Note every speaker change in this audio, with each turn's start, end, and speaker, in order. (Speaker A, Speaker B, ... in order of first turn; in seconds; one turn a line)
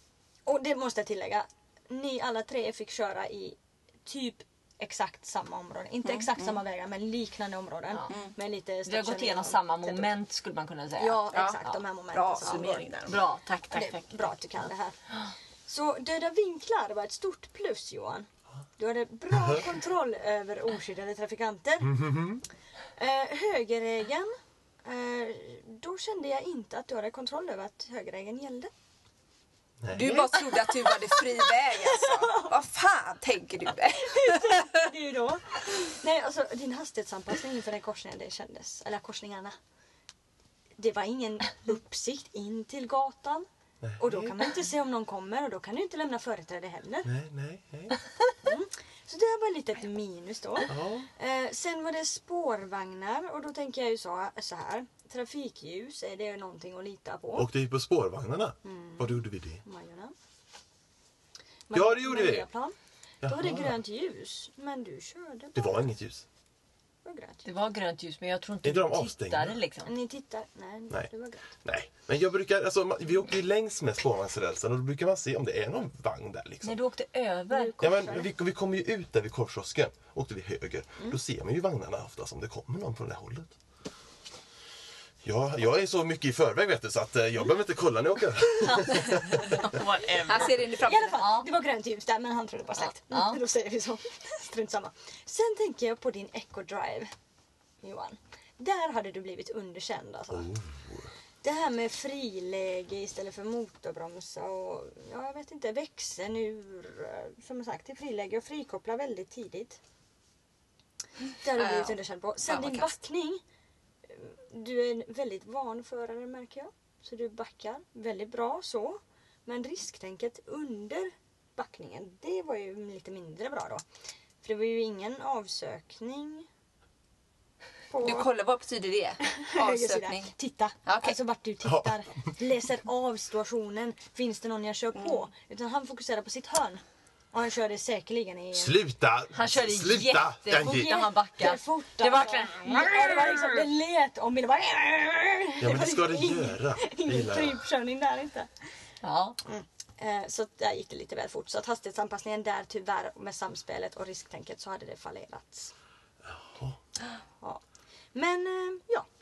Speaker A: 0.5-10.1
Speaker B: 6.0-6.6
Speaker C: 8.8-11.3
Speaker B: 11.0-13.2
Speaker A: 11.0-12.9
Speaker C: 13.1-14.3
Speaker A: 13.7-15.0
Speaker A: 15.7-22.0
Speaker D: 21.8-22.4
Speaker A: 23.0-28.7
Speaker D: 29.8-30.4
Speaker B: 29.9-34.8
Speaker A: 30.3-31.2
Speaker A: 31.9-32.5
Speaker A: 34.1-39.6
Speaker A: 40.8-43.5
Speaker D: 43.8-44.5
Speaker A: 44.0-47.1
Speaker D: 47.0-48.0
Speaker A: 48.4-57.5
Speaker D: 50.7-51.1
Speaker D: 57.4-59.6
Speaker A: 58.6-60.1
Speaker A: 61.7-65.9
Speaker D: 61.7-62.5
Speaker D: 63.2-63.8
Speaker D: 65.6-66.2
Speaker A: 67.0-67.4
Speaker C: 67.4-69.9
Speaker D: 68.6-69.6
Speaker A: 69.8-71.5
Speaker D: 71.6-76.8
Speaker C: 76.6-77.8
Speaker A: 77.5-78.3
Speaker D: 77.8-83.5
Speaker D: 85.2-89.7
Speaker C: 88.6-90.6
Speaker B: 90.2-91.3
Speaker A: 90.8-97.1
Speaker C: 91.2-91.5
Speaker C: 93.1-93.4
Speaker A: 97.8-100.5
Speaker D: 100.3-101.1
Speaker A: 101.4-109.8
Speaker A: 111.3-113.4
Speaker B: 111.5-112.9
Speaker A: 114.1-123.8
Speaker A: 124.4-126.5
Speaker A: 127.9-128.3
Speaker B: 128.0-130.3
Speaker A: 129.4-136.8
Speaker B: 130.9-131.2
Speaker D: 131.6-132.0
Speaker B: 135.0-135.2
Speaker A: 137.3-138.8
Speaker D: 138.5-141.1
Speaker C: 139.3-143.6
Speaker A: 140.6-148.5
Speaker D: 145.6-147.6
Speaker C: 149.0-149.4
Speaker A: 149.4-155.7
Speaker D: 156.3-156.8
Speaker A: 158.1-159.1